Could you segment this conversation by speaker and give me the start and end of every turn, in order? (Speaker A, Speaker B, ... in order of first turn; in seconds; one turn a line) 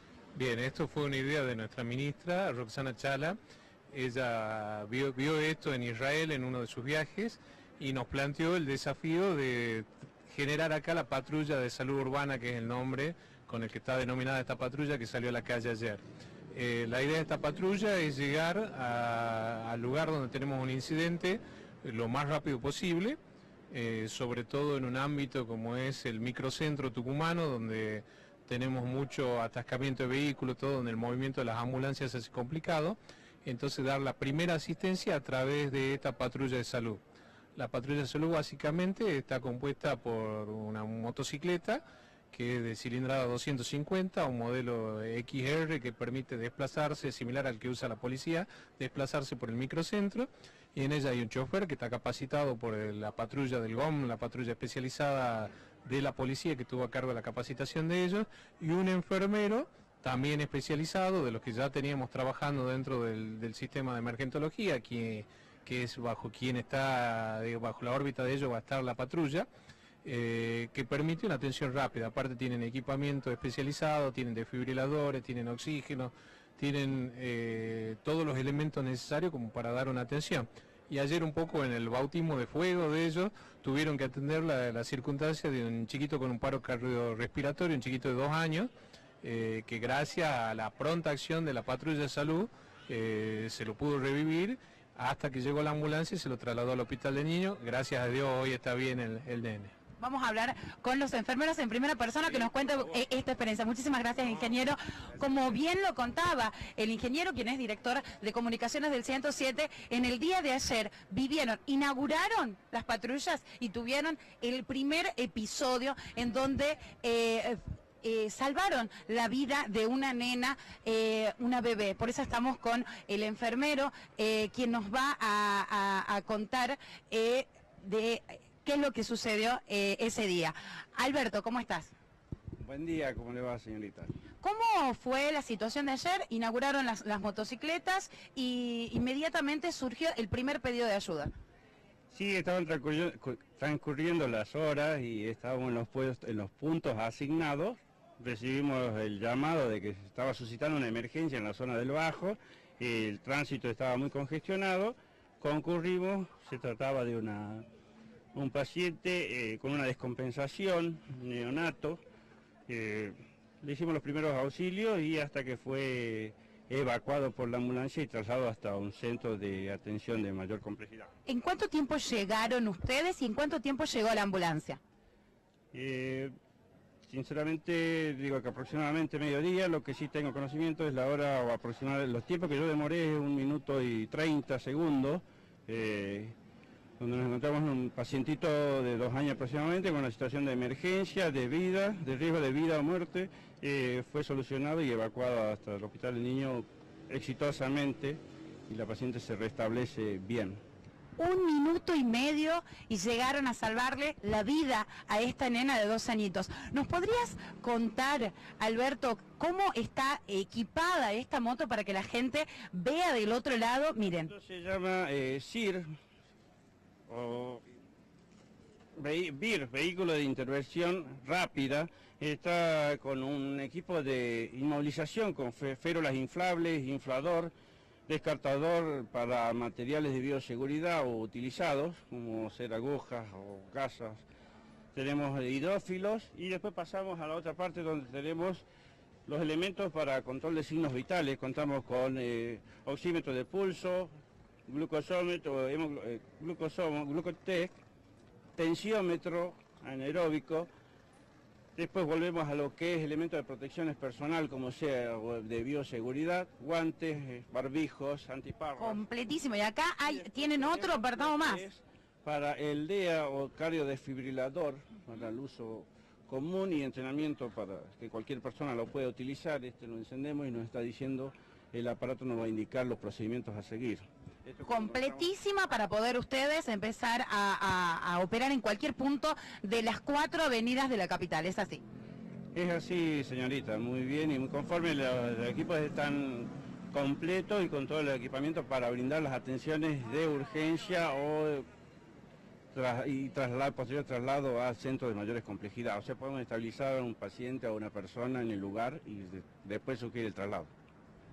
Speaker A: 0.3-3.4
Speaker A: 3.9-23.2
Speaker A: 23.7-37.0
Speaker A: 37.5-69.5
Speaker A: 70.0-88.7
Speaker A: 89.2-99.7
Speaker B: 100.0-131.9
Speaker C: 132.6-134.1
Speaker B: 134.4-141.3
Speaker C: 142.1-157.6
Speaker C: 158.3-162.0
Speaker C: 162.7-171.1
Speaker B: 171.2-174.8
Speaker C: 175.7-176.3
Speaker C: 177.1-186.3
Speaker C: 187.0-200.6
Speaker B: 201.2-214.3
Speaker C: 214.3-215.9
Speaker C: 217.1-217.6
Speaker C: 219.0-227.5
Speaker C: 228.1-234.2
Speaker C: 234.9-238.6
Speaker C: 239.3-244.1
Speaker C: 244.7-247.7
Speaker C: 248.6-250.7
Speaker C: 251.8-259.0
Speaker B: 258.8-261.6
Speaker C: 260.0-275.2
Speaker B: 274.6-281.8
Speaker C: 282.5-291.7
Speaker C: 292.7-300.7